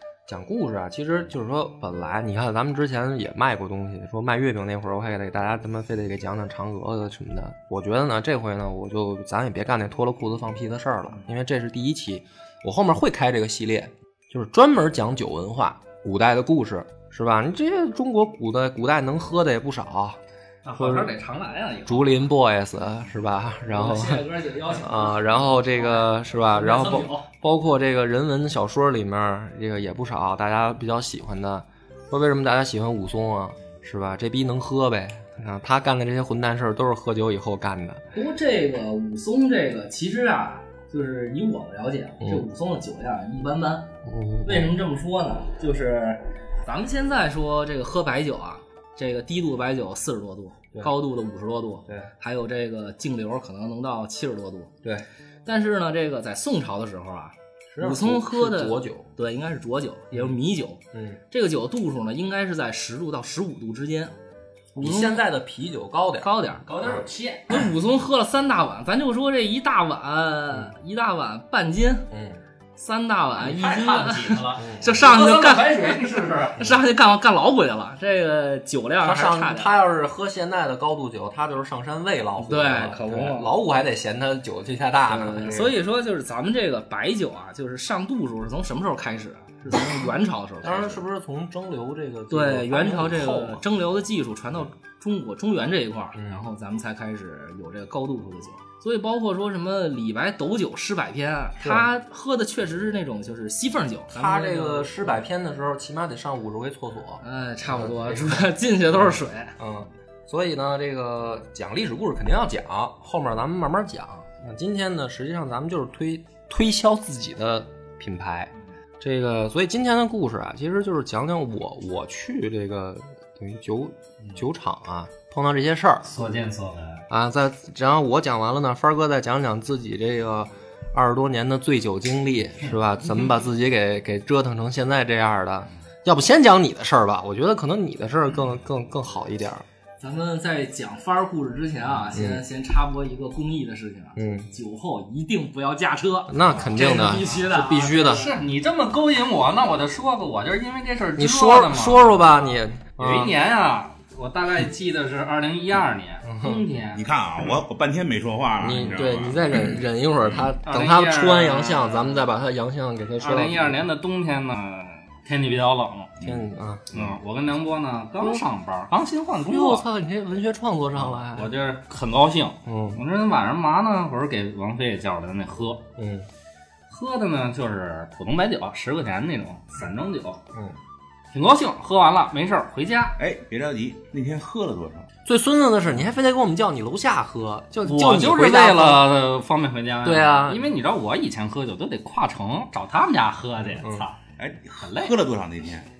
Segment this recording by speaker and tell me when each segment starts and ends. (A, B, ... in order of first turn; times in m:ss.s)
0:00.3-0:20.2 A
0:20.6-0:22.2 B
0:20.8-0:21.1 A
0:21.9-0:38.0 A
0:23.7-0:27.3 C
0:38.1-0:43.9 C
0:44.1-0:44.7 A
0:44.4-0:54.8 C
0:55.5-1:04.1 C
0:57.7-0:59.1 A
1:00.9-1:01.2 A
1:04.8-1:06.3 A
1:04.8-1:05.3 C
1:06.2-1:06.7 C
1:06.6-1:07.6 B
1:07.5-1:12.1 C
1:12.1-1:12.4 A
1:12.8-1:19.7 C
1:13.4-1:16.6 B
1:14.6-1:14.9 A
1:19.0-1:25.8 A
1:22.4-1:23.5 C
1:25.1-1:31.0 C
1:30.6-1:33.6 A
1:32.3-1:45.0 C
1:36.2-1:36.5 A
1:41.6-1:41.9 A
1:44.1-1:48.3 A
1:47.2-1:49.6 C
1:49.6-2:06.0 A
2:06.0-2:07.0 B
2:07.1-2:19.6 A
2:20.0-2:28.3 C
2:22.1-2:22.4 A
2:24.2-2:24.5 A
2:26.3-2:28.3 A
2:28.0-2:37.1 B
2:31.2-2:33.4 A
2:36.2-2:36.6 A
2:37.0-2:40.5 D
2:38.6-2:43.8 A
2:40.6-2:42.2 B
2:43.2-2:46.1 B
2:46.2-2:46.9 A
2:46.9-2:49.8 B
2:49.4-2:51.5 A
2:51.0-2:55.8 B
2:52.7-2:53.0 A
2:56.0-2:56.3 A
2:56.9-3:00.4 B
3:01.3-3:03.2 B
3:03.2-3:05.1 D
3:05.2-3:09.1 A
3:07.8-3:14.2 B
3:10.0-3:10.7 A
3:13.8-3:14.1 A
3:14.4-3:15.9 D
3:14.8-3:15.2 B